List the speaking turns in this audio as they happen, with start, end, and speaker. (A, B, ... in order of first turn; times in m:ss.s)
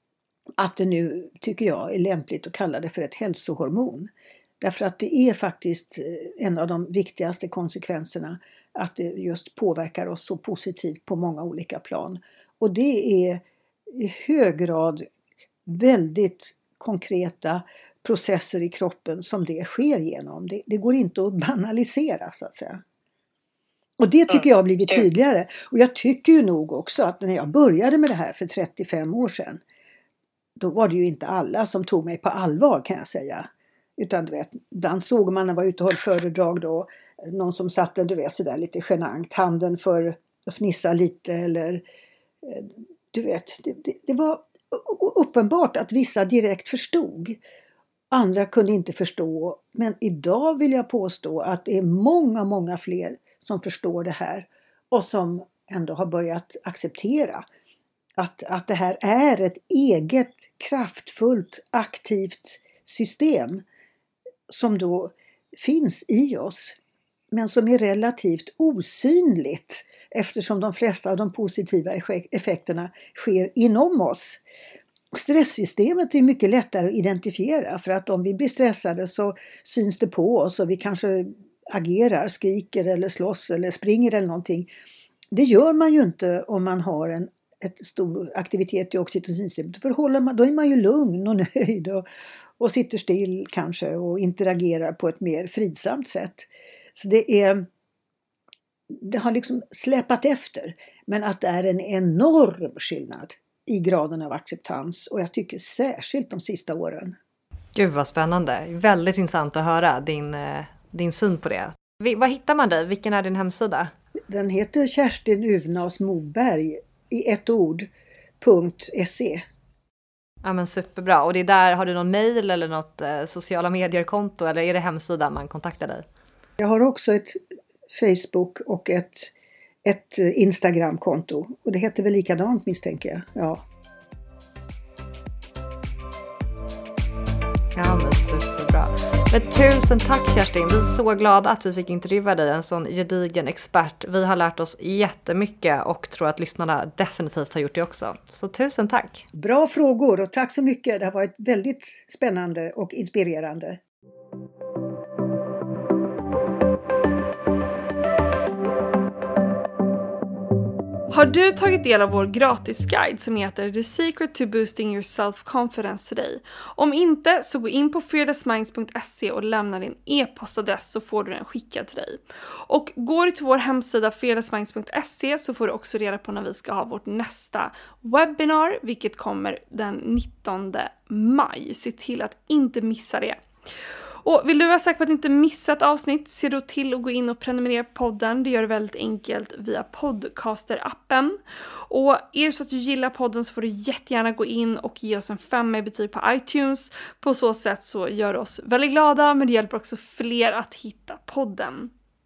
0:00.6-0:15.1 A
0:15.7-0:22.8 A
0:24.0-0:29.6 A
0:30.6-0:41.8 A
0:42.4-0:47.4 A
0:48.1-0:57.4 A
0:58.2-1:03.6 A
1:04.5-1:06.8 A
1:07.3-1:14.4 A
1:15.1-1:24.7 A
1:25.3-1:32.0 A
1:32.6-1:37.7 A
1:38.9-1:47.2 A
1:47.8-1:53.9 B
1:54.3-1:57.9 A
1:58.4-1:59.4 A
2:00.4-2:06.1 B
2:06.6-2:09.3 A
2:09.8-2:13.6 A
2:17.8-2:29.2 B
2:29.3-2:33.8 A
2:41.1-3:03.4 C
3:04.2-3:21.9 C